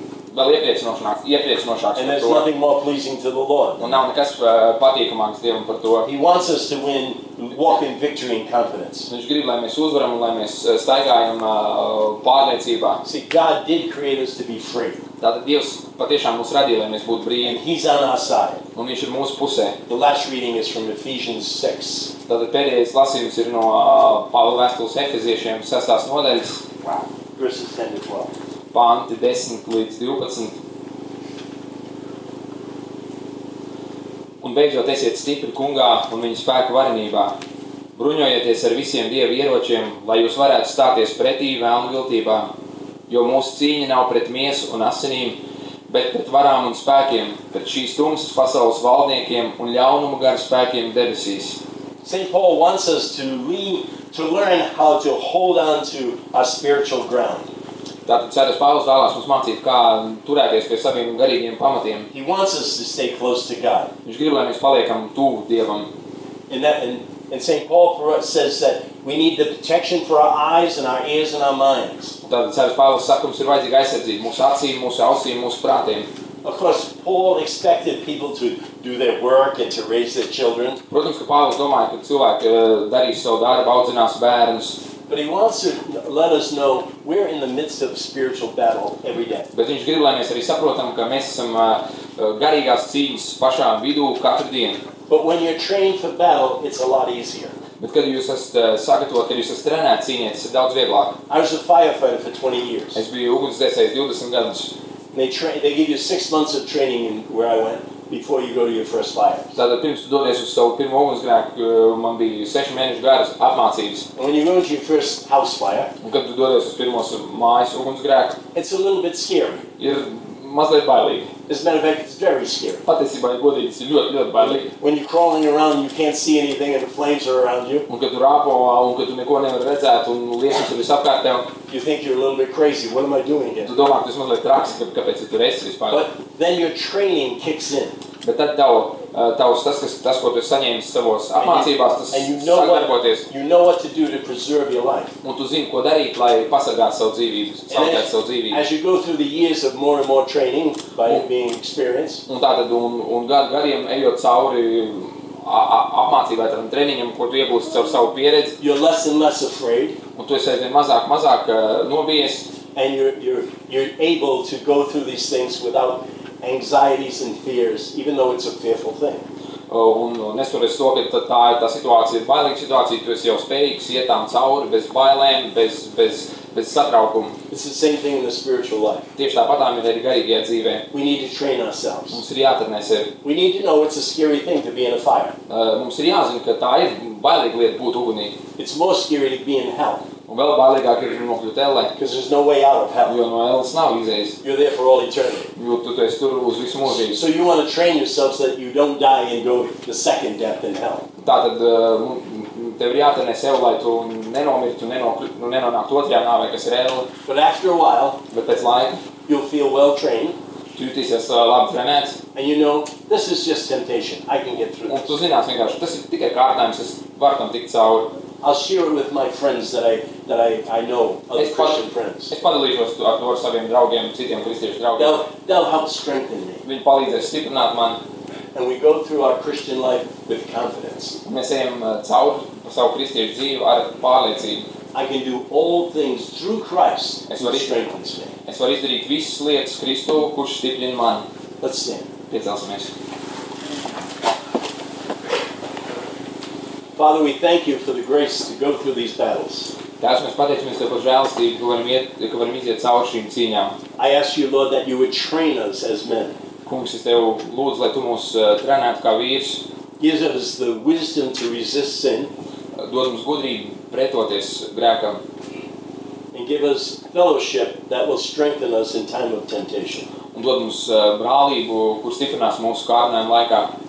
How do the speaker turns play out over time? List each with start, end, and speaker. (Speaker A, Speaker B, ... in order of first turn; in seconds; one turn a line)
Speaker A: 0.3-2.5
Speaker B: 2.0-4.0
Speaker A: 3.8-6.1
Speaker B: 6.0-9.1
Speaker A: 9.1-13.0
Speaker B: 13.0-15.0
Speaker A: 15.2-17.6
Speaker B: 17.4-18.6
Speaker A: 18.8-19.8
Speaker B: 19.9-22.1
Speaker A: 22.3-26.6
Speaker B: 26.8-28.3
Speaker A: 28.7-30.6
Speaker A: 34.4-37.4
Speaker A: 38.0-42.5
Speaker A: 43.1-51.6
Speaker B: 52.0-57.5
Speaker A: 58.1-62.1
Speaker B: 62.1-63.9
Speaker A: 64.0-65.9
Speaker B: 66.5-72.2
Speaker A: 72.2-76.1
Speaker B: 76.4-80.8
Speaker A: 80.9-84.8
Speaker B: 85.1-89.5
Speaker A: 89.5-94.8
Speaker B: 95.1-97.6
Speaker A: 97.8-101.2
Speaker B: 101.3-103.0
Speaker A: 103.0-104.7
Speaker B: 105.1-109.6
Speaker A: 109.5-114.0
Speaker B: 114.2-115.9
Speaker A: 116.0-118.4
Speaker B: 118.5-119.7
Speaker A: 119.8-121.3
Speaker B: 121.5-122.8
Speaker A: 122.9-124.7
Speaker B: 124.4-127.9
Speaker A: 127.9-131.5
Speaker B: 131.7-133.7
Speaker A: 133.6-136.0
Speaker B: 135.9-138.0
Speaker A: 138.2-143.3
Speaker B: 141.3-145.2
Speaker A: 145.2-148.6
Speaker B: 147.7-152.2
Speaker A: 152.3-158.6
Speaker B: 158.6-160.0
Speaker A: 160.2-162.5
Speaker B: 162.7-169.3
Speaker A: 169.7-177.4
Speaker B: 177.5-179.1
Speaker A: 179.2-180.8
Speaker B: 180.9-182.2
Speaker A: 182.1-183.1
Speaker B: 183.2-185.3
Speaker A: 185.5-188.4
Speaker B: 188.6-190.1
Speaker A: 190.3-191.9
Speaker B: 192.0-193.2
Speaker A: 193.1-194.4
Speaker B: 194.4-195.5
Speaker A: 195.6-197.2
Speaker B: 196.9-201.1
Speaker A: 201.2-207.1
Speaker B: 207.3-208.2
Speaker A: 208.3-209.0
Speaker B: 209.3-210.4
Speaker A: 210.8-212.2
Speaker B: 212.3-215.2
Speaker A: 214.9-218.2
Speaker B: 218.4-222.3
Speaker A: 221.4-225.2
Speaker B: 225.0-226.6
Speaker A: 226.6-228.0
Speaker B: 228.6-231.2
Speaker A: 231.2-234.7
Speaker B: 234.9-238.3
Speaker A: 237.3-237.8
Speaker A: 238.5-241.3
Speaker B: 241.6-242.1
Speaker A: 242.3-242.9
Speaker B: 247.0-249.7
Speaker A: 250.0-253.8
Speaker B: 254.0-256.4
Speaker A: 256.7-259.6
Speaker B: 260.0-262.3
Speaker A: 262.8-265.2
Speaker B: 266.3-270.1
Speaker A: 270.3-273.7